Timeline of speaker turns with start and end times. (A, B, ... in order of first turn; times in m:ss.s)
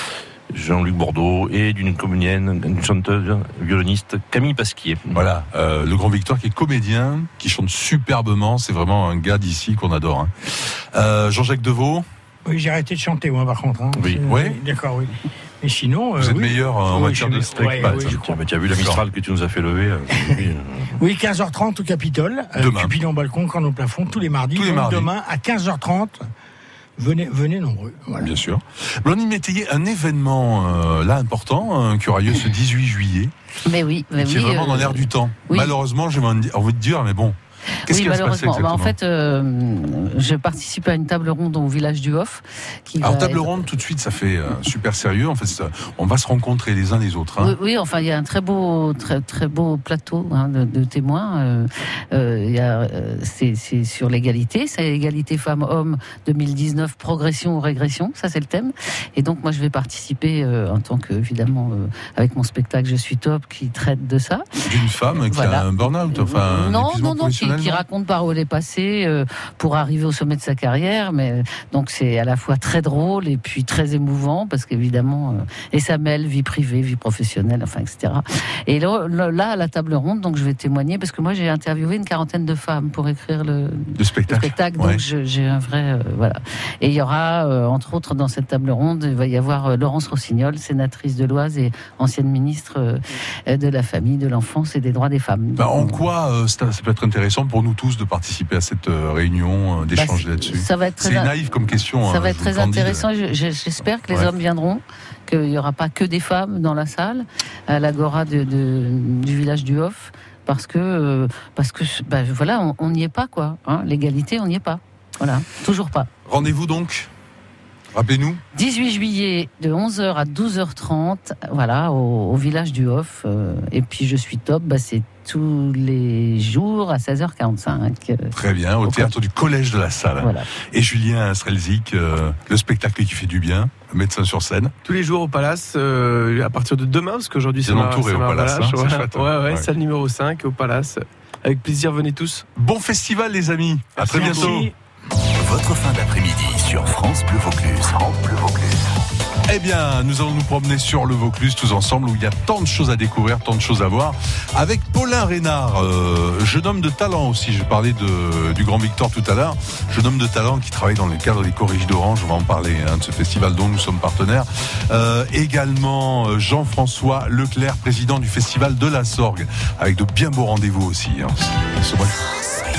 0:00.5-0:05.2 A
0:05.1-0:12.0 B
0:12.4-0:18.4 C
0:14.2-0:14.6 B
0:16.2-0:19.0 B
0:17.6-0:21.0 A
0:21.0-0:26.2 C
0:22.6-0:22.9 B
0:24.5-0:25.1 B
0:27.0-0:28.3 C
0:28.2-0:33.3 B
0:33.6-0:35.7 D
0:34.2-0:39.0 B
0:37.8-0:43.6 D
0:43.0-0:47.6 B
0:47.4-1:36.0 D
1:04.6-1:07.8 B
1:24.0-1:25.0 B
1:35.6-1:43.1 B
1:39.9-1:41.3 D
1:42.0-1:56.1 D
1:56.2-1:57.1 B
1:57.9-1:58.4 B
1:58.5-2:09.1 D
2:08.3-2:14.7 B
2:14.8-2:22.4 E
2:17.6-2:19.7 B
2:22.6-2:24.7 B
2:24.0-2:24.7 C
2:25.3-2:28.8 F
2:29.5-2:52.2 B